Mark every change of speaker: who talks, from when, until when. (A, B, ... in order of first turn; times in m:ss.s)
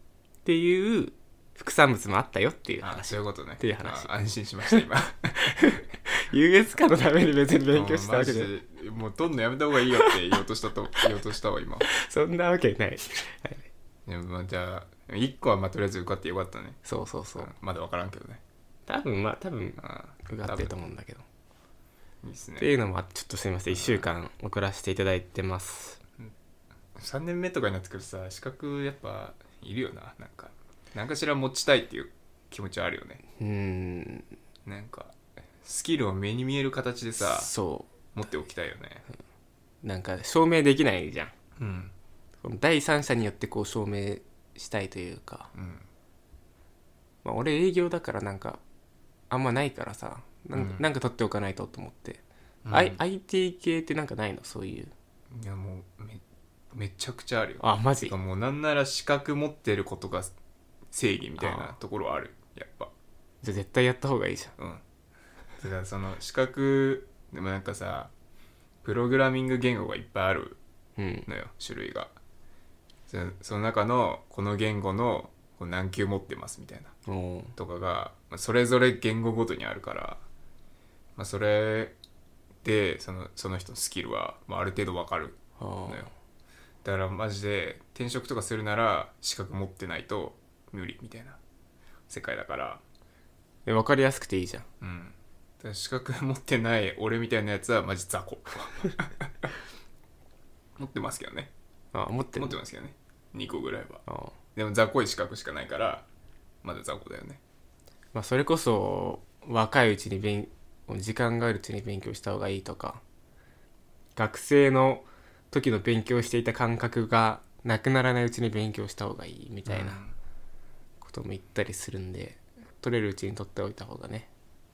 0:00.4-0:04.1 A
0:02.8-0:05.7 B
0:05.6-0:08.5 A
0:07.7-0:11.9 B
0:12.0-0:13.7 A
0:14.0-0:16.8 B
0:16.8-0:17.5 A
0:17.4-0:18.4 B
0:18.9-0:21.2 A
0:19.8-0:20.7 B
0:22.2-0:22.7 B
0:22.6-0:26.0 A
0:23.7-0:24.1 B
0:27.0-0:33.2 B
0:33.4-0:34.3 A
0:34.6-0:37.5 B
0:37.2-0:37.9 A
0:38.1-0:39.0 B
0:39.8-0:41.3 A
0:41.6-0:41.9 B
0:42.4-0:45.5 A
0:45.5-0:45.9 B
0:47.2-0:48.6 A
0:49.3-0:54.9 A
0:50.5-0:50.8 B
0:52.6-0:53.0 B
0:55.3-1:00.4 B
0:57.6-0:58.1 A
1:00.9-1:02.9 B
1:01.4-1:01.7 A
1:03.4-1:04.5 A
1:04.6-1:04.8 B
1:05.6-1:08.1 B
1:08.8-1:10.6 B
1:11.0-1:11.3 A
1:11.3-1:12.1 B
1:13.1-1:16.9 B
1:17.1-1:17.5 A
1:17.6-1:20.2 B
1:21.2-1:22.0 B
1:22.6-1:26.1 B
1:25.6-1:26.1 A
1:26.8-1:31.4 B
1:32.1-1:32.8 B
1:33.6-1:34.7 A
1:34.8-1:39.5 B
1:40.8-1:41.5 B
1:41.9-1:42.6 A
1:42.4-1:44.0 B
1:44.1-1:44.3 A
1:44.6-1:46.1 B
1:46.6-1:47.4 B
1:48.1-1:53.0 A
1:54.2-2:00.0 A
1:59.6-2:00.2 B
2:01.0-2:04.3 A